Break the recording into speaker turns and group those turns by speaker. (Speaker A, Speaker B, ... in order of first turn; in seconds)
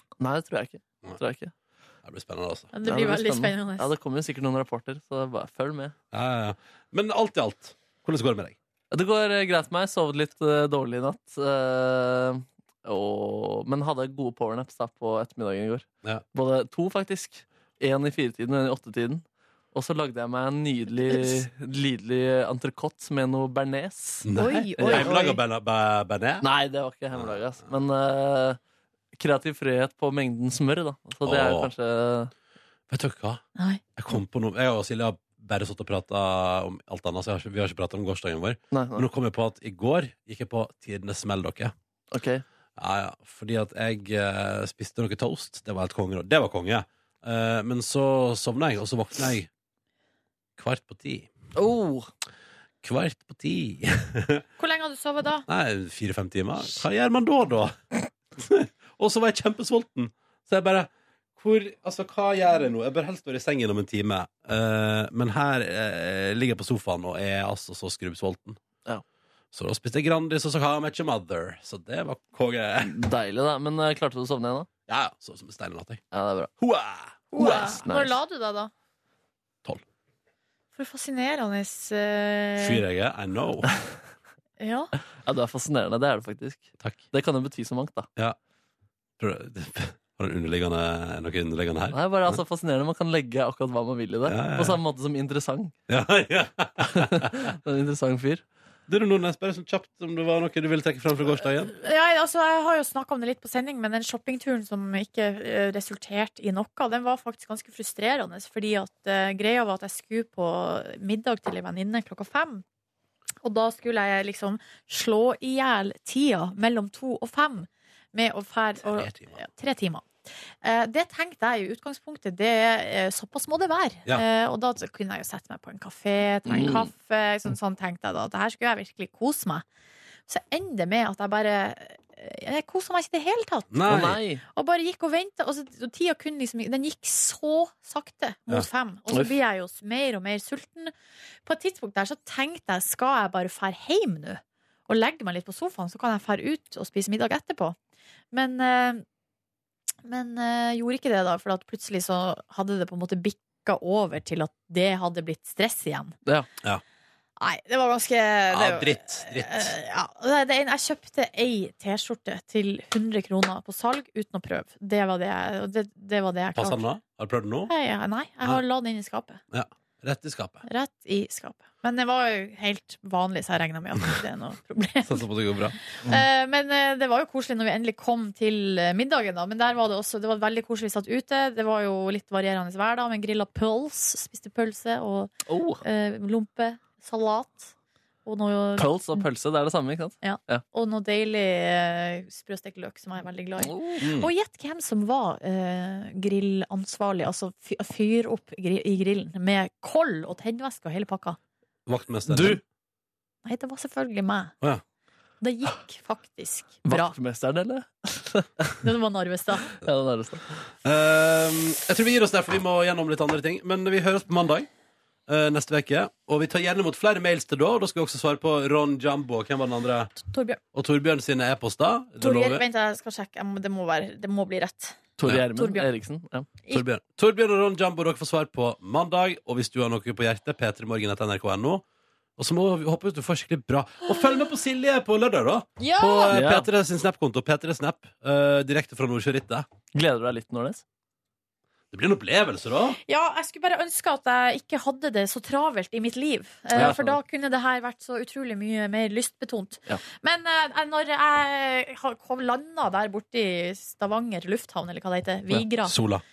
Speaker A: 0.2-1.5, 2.8-5.9, 8.9-25.2, 26.4-28.6, 29.1-32.3, 38.7-39.1, 42.1-42.4, 51.5-52.1, 72.8-74.7, 76.1-76.5, 77.4-78.2, 85.2-88.1, 91.9-95.7, 96.9-98.4, 126.5-126.9, 133.9-134.4, 185.5-185.8, 188.8-190.6, 193.6-194.0, 202.3-202.6, 206.9-208.8, 209.8-210.5, 225.2-226.6, 236.3-236.7, 239.9-240.8, 246.7-247.2
Speaker B: 2.0-2.7, 6.1-8.6, 24.2-26.5, 31.2-31.7, 32.9-33.4, 34.0-41.7, 42.8-49.5, 50.6-51.3, 52.8-54.4, 55.5-68.6, 69.5-73.0, 74.9-76.0, 76.6-77.8, 82.6-83.7, 89.2-92.4, 94.2-94.8, 95.9-97.5, 98.9-101.7, 118.8-119.4, 133.7-134.2, 158.5-159.7, 166.6-167.7, 169.5-170.6, 175.1-176.1, 194.0-194.3, 201.8-202.6, 210.8-214.7, 215.3-220.1, 220.7-222.6, 226.7-231.8, 232.4-239.7, 241.9-243.0, 246.7-247.0, 255.7-256.2
Speaker C: 2.7-3.9, 21.1-21.4, 24.3-25.4, 33.5-33.8, 54.6-55.5, 77.3-78.7, 80.8-82.8, 84.6-84.9, 101.8-112.6, 113.4-120.1, 120.6-129.6, 130.3-133.9, 134.5-140.9, 141.4-147.8, 148.3-149.0, 150.0-156.2, 157.4-166.8, 167.7-169.4, 170.7-175.2, 175.9-187.7, 188.2-189.2, 190.2-201.4, 203.4-204.5, 205.4-207.1, 208.8-209.7, 220.2-220.6, 222.2-225.0, 225.6-225.9, 235.8-236.3, 243.0-255.9